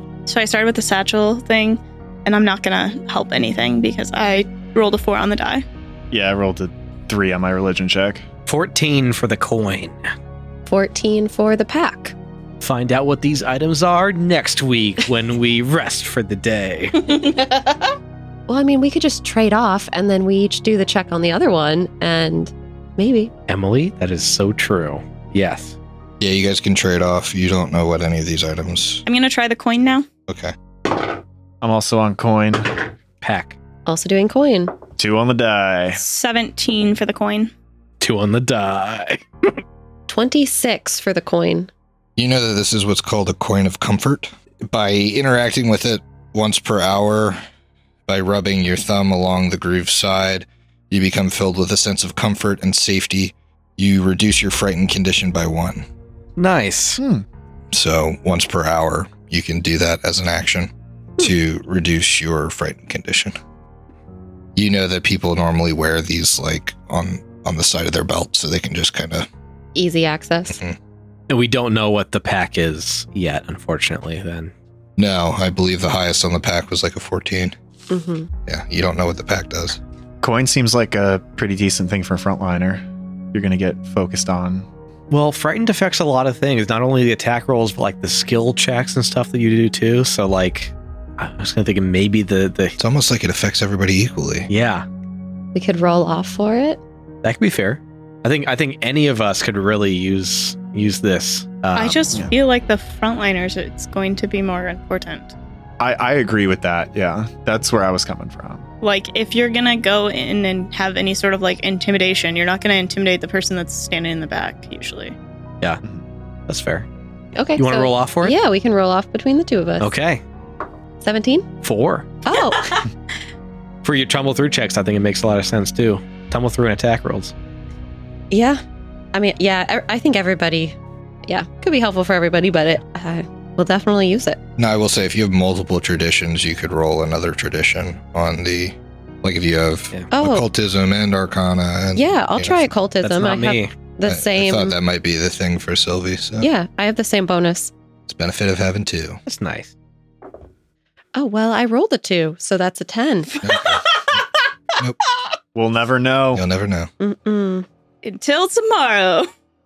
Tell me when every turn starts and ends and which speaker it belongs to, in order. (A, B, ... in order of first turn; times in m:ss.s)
0:00.3-0:05.6 A
0:06.1-0:08.2 B
0:08.5-0:10.0 C
0:10.7-0:12.1 D
0:12.6-0:17.0 C
0:17.1-0:17.9 D
0:18.5-0:23.3 D
0:23.5-0:25.8 C
0:26.2-0:29.0 E
0:29.0-0:30.1 A
0:30.3-0:30.6 E
0:31.6-0:32.8 B
0:33.2-0:33.6 C
0:33.8-0:34.7 D
0:35.0-0:36.0 B
0:36.0-0:37.5 A
0:38.0-0:39.5 C
0:40.1-0:41.7 D
0:42.2-0:47.4 E
0:48.1-0:55.8 E
0:56.4-0:57.0 C
0:57.0-0:57.2 B
0:57.7-1:03.4 E
1:04.6-1:09.3 E
1:09.7-1:10.6 D
1:10.5-1:10.8 E
1:11.3-1:14.5 C
1:15.0-1:17.5 E
1:17.9-1:18.3 D
1:18.5-1:19.8 E
1:20.2-1:24.7 B
1:25.1-1:32.8 C
1:32.8-1:34.5 E
1:34.5-1:34.8 C
1:35.6-1:36.8 D
1:37.2-1:42.0 C
1:41.7-1:45.3 A
1:45.8-1:48.7 B
1:48.8-1:55.2 A
1:56.5-1:56.9 C
1:57.3-1:59.9 D
1:57.6-1:58.4 C
1:59.8-2:00.2 C
2:01.0-2:01.5 D
2:01.6-2:02.2 C
2:02.2-2:02.9 D
2:03.8-2:07.3 C
2:08.3-2:08.6 D
2:09.1-2:10.8 D
2:11.3-2:14.4 D
2:14.6-2:22.7 E
2:20.1-2:20.4 D
2:22.0-2:24.7 D
2:23.0-2:23.7 C
2:24.0-2:26.5 E
2:26.4-2:27.7 D
2:28.1-2:29.2 E
2:29.2-2:29.7 C
2:31.1-2:33.5 D
2:33.4-2:34.2 E
2:35.6-2:36.4 B
2:36.3-2:36.9 E
2:37.0-2:37.6 D
2:38.0-2:39.3 A